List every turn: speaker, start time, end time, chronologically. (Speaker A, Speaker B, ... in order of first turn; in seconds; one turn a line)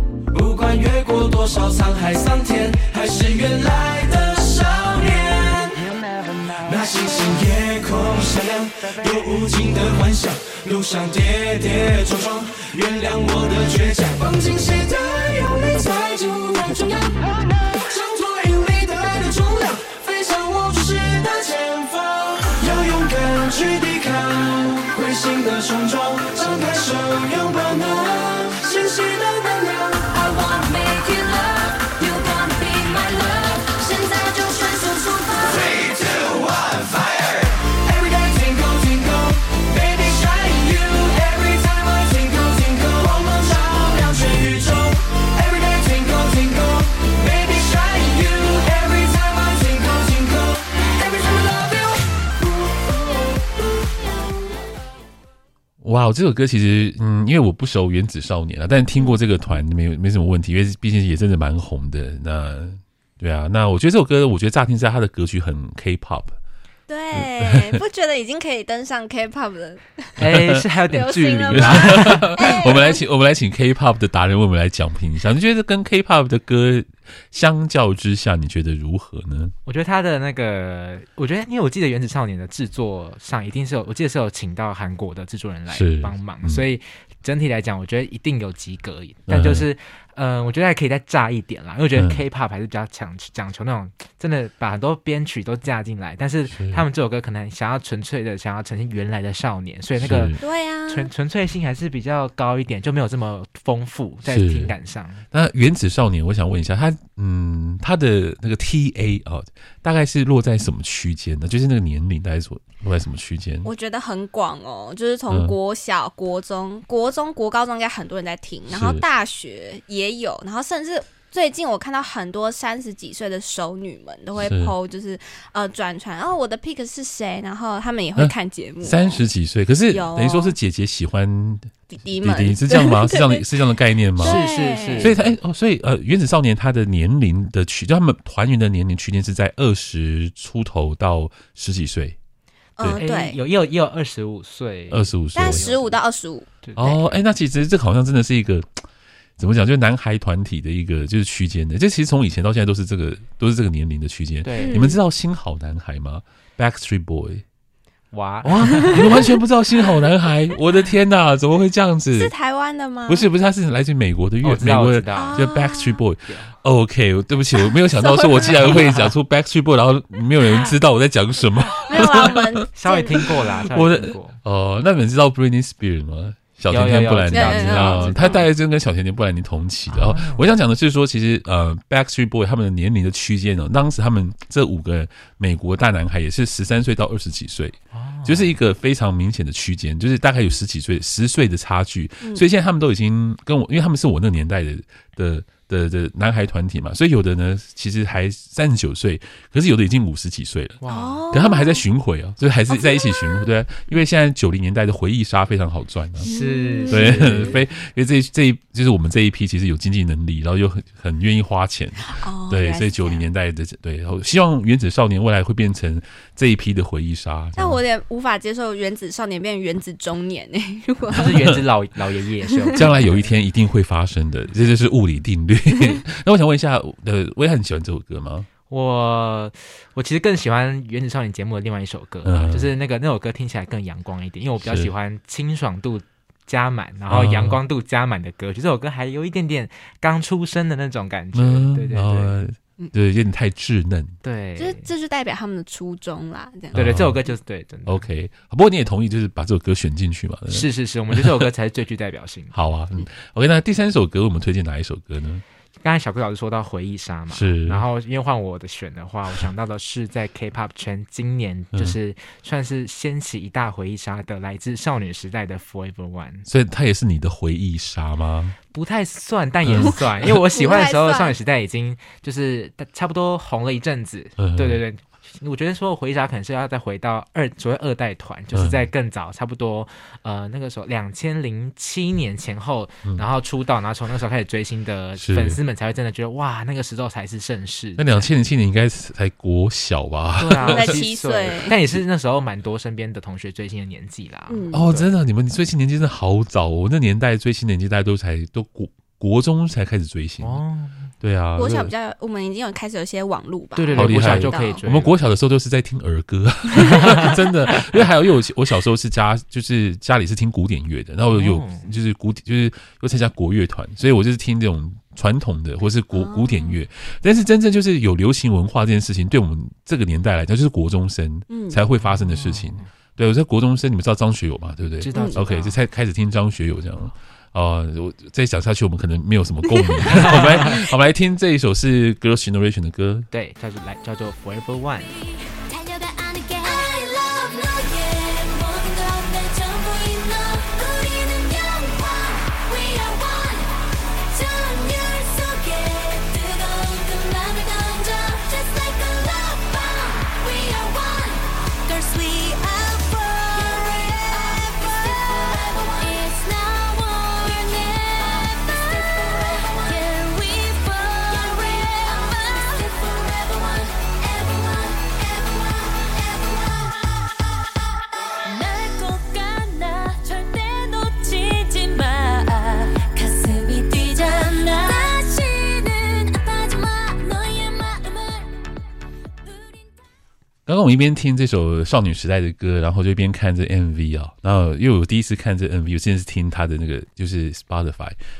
Speaker A: 0.3-17.2
Speaker A: 17.7-31.6
Speaker B: 30.5-35.8
Speaker A: 32.2-33.6
Speaker A: 35.5-53.4
Speaker C: 55.8-66.3
Speaker D: 66.9-70.2
Speaker C: 67.1-67.8
Speaker C: 70.2-70.6
Speaker E: 70.2-72.3
Speaker D: 70.9-73.0
Speaker C: 71.5-79.5
Speaker E: 79.7-105.2
Speaker C: 85.7-86.7
Speaker C: 89.3-89.7
Speaker C: 92.0-92.2
Speaker C: 96.5-96.8
Speaker C: 100.0-100.4
Speaker D: 100.4-101.1
Speaker C: 104.2-104.7
Speaker C: 105.3-113.7
Speaker D: 113.6-129.2
Speaker C: 115.3-115.5
Speaker C: 118.7-119.0
Speaker C: 124.3-124.7
Speaker C: 128.2-134.4
Speaker D: 129.9-130.6
Speaker D: 131.9-133.4
Speaker D: 134.2-135.1
Speaker E: 134.2-135.2
Speaker C: 135.0-142.2
Speaker D: 142.8-143.4
Speaker E: 142.9-146.0
Speaker C: 144.9-145.6
Speaker D: 145.3-146.5
Speaker E: 146.6-147.2
Speaker C: 146.8-148.8
Speaker C: 149.4-157.4
Speaker E: 154.4-154.9
Speaker D: 154.6-155.0
Speaker E: 158.1-159.2
Speaker C: 158.4-162.3
Speaker D: 158.8-159.3
Speaker D: 162.1-163.3
Speaker C: 163.1-172.6
Speaker E: 164.4-165.4
Speaker D: 165.1-166.0
Speaker E: 166.3-166.5
Speaker D: 167.9-168.8
Speaker E: 168.6-169.1
Speaker D: 171.9-173.2
Speaker E: 172.8-174.4
Speaker C: 173.7-200.8
Speaker E: 176.7-178.4
Speaker D: 177.3-178.4
Speaker E: 179.9-180.5
Speaker E: 187.9-188.5
Speaker E: 200.8-201.3
Speaker D: 200.9-201.8
Speaker C: 201.3-206.3
Speaker D: 202.7-203.4
Speaker E: 206.2-207.6
Speaker D: 206.2-207.5
Speaker C: 206.9-217.8
Speaker D: 212.1-213.3
Speaker D: 217.6-221.6
Speaker E: 221.2-223.3
Speaker C: 221.2-221.6
Speaker C: 222.7-228.5
Speaker E: 228.7-242.4
Speaker C: 232.2-232.7
Speaker C: 234.6-234.9
Speaker C: 237.1-237.6
Speaker C: 241.3-244.2
Speaker E: 244.2-244.9
Speaker D: 244.6-246.8
Speaker C: 246.7-247.2
Speaker E: 246.7-248.0
Speaker C: 247.8-251.4
Speaker E: 250.5-252.5
Speaker C: 252.5-255.4
Speaker E: 255.8-266.4
Speaker C: 257.3-257.8
Speaker C: 266.5-268.6
Speaker E: 268.7-288.3
Speaker C: 269.6-270.3
Speaker D: 270.5-271.3
Speaker C: 274.4-274.8
Speaker C: 278.5-278.9
Speaker C: 285.2-285.6
Speaker C: 288.0-291.0
Speaker E: 290.4-295.1
Speaker D: 290.7-291.8
Speaker D: 294.5-294.9
Speaker C: 294.7-300.6
Speaker E: 300.4-301.1
Speaker C: 301.2-301.9
Speaker D: 301.6-304.8
Speaker E: 303.8-305.2
Speaker C: 303.9-333.3
Speaker E: 306.8-307.3
Speaker E: 311.3-311.9
Speaker D: 316.1-316.8
Speaker D: 321.5-321.8
Speaker E: 322.0-322.9
Speaker E: 325.0-325.8
Speaker D: 325.1-325.4
Speaker E: 330.1-330.7
Speaker E: 333.3-335.1
Speaker B: 335.5-367.1
Speaker B: 368.4-378.5
Speaker B: 379.4-379.9
Speaker C: 380.6-388.1